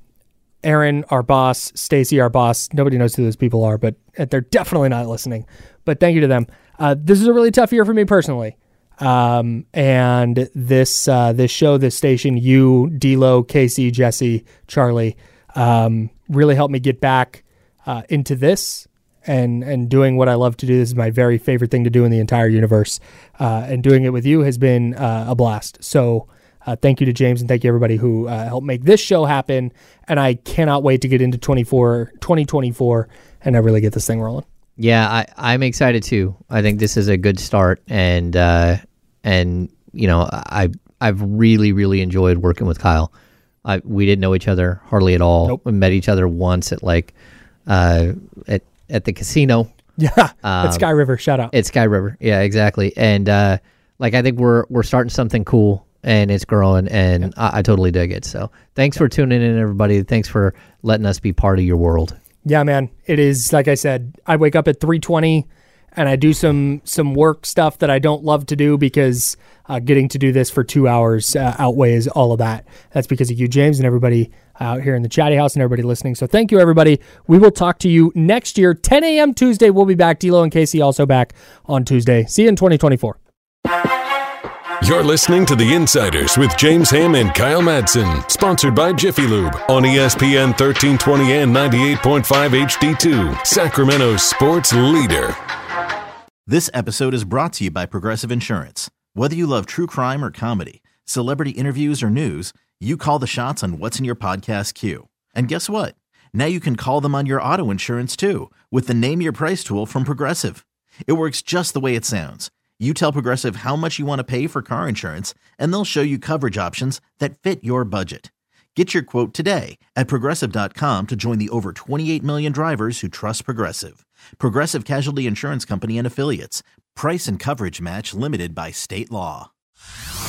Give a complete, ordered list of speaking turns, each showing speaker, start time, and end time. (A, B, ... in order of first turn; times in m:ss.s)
0:00.6-0:34.4 A
0:34.8-0:43.1 B
0:43.6-0:47.1 B
0:47.7-0:49.7 B
0:50.0-0:51.5 A
0:50.4-0:50.9 B
0:51.5-1:02.2 B
1:02.4-1:23.2 A
1:24.8-1:35.4 C
1:36.4-2:09.5 D